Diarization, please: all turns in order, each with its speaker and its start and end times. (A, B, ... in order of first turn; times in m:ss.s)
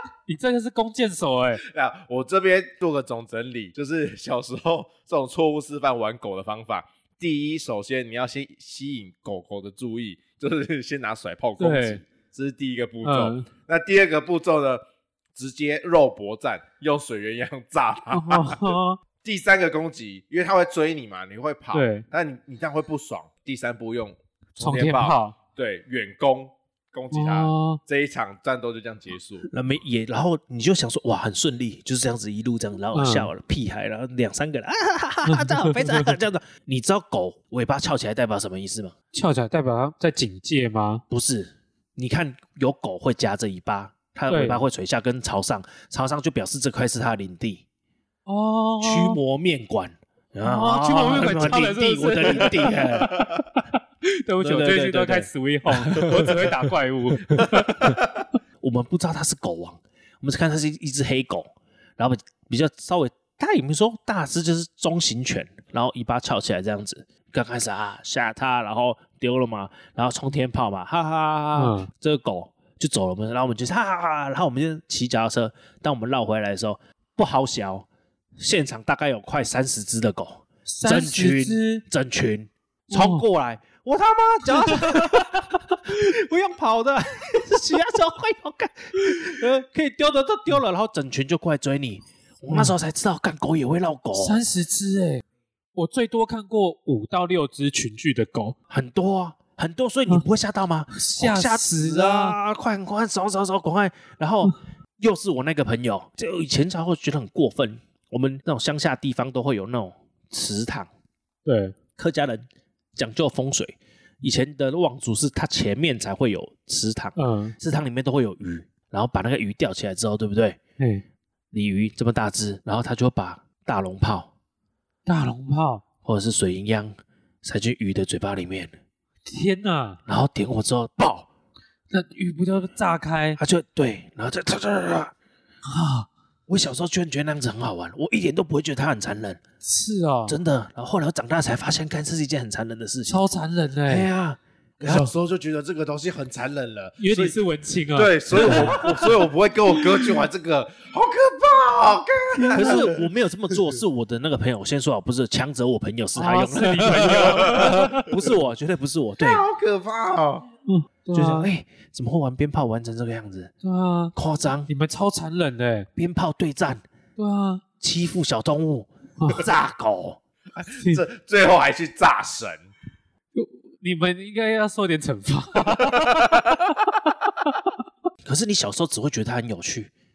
0:00.3-0:01.6 A
0:01.6-0:14.8 B
0:11.6-0:12.0 A
0:13.0-0:13.5 A
0:15.3-0:29.5 B
0:18.1-0:19.0 A
0:21.7-0:22.0 A
0:24.6-0:25.4 A
0:27.1-0:27.8 A
0:29.5-0:38.9 C
0:32.9-0:33.3 A
0:35.3-0:36.1 A
0:39.1-0:41.0 A
0:41.1-0:47.6 C
0:44.3-0:44.6 A
0:48.2-0:49.2 A
0:48.8-0:53.3 C
0:50.4-0:53.3 A
0:53.1-0:53.4 B
0:54.0-0:58.0 A
0:54.4-0:56.6 C
0:57.4-0:58.1 B
0:58.6-1:34.4 C
1:11.5-1:11.9 A
1:20.7-1:21.8 A
1:22.9-1:23.2 A
1:24.5-1:25.4 A
1:32.5-1:32.7 A
1:34.2-1:35.2 A
1:35.7-1:38.6 A
1:38.7-1:50.9 C
1:40.9-1:42.4 A
1:51.4-1:51.7 A
1:52.0-2:00.6 C
1:57.2-1:57.5 A
2:01.5-2:04.3 C
2:05.0-2:05.8 A
2:06.0-2:08.7 C
2:09.2-2:10.0 A
2:10.1-2:11.3 C
2:11.9-2:13.4 A
2:13.4-2:15.1 C
2:15.6-2:16.1 A
2:16.5-2:19.4 C
2:19.6-2:20.4 A
2:20.3-2:23.2 C
2:23.1-2:24.1 A
2:23.9-2:25.1 C
2:24.8-2:27.4 B
2:27.0-2:29.2 A
2:27.9-2:33.0 B
2:32.4-2:39.4 C
2:36.1-2:38.2 A
2:37.0-2:37.8 B
2:39.2-2:40.5 B
2:40.6-2:41.5 A
2:41.1-2:43.5 C
2:43.6-2:44.1 A
2:44.1-2:44.7 C
2:44.7-2:45.9 A
2:46.0-2:46.8 C
2:47.2-2:47.6 A
2:47.8-2:50.2 C
2:49.2-2:49.4 A
2:50.5-2:52.7 B
2:53.3-2:56.9 A
2:56.1-2:56.4 B
2:58.2-2:59.9 C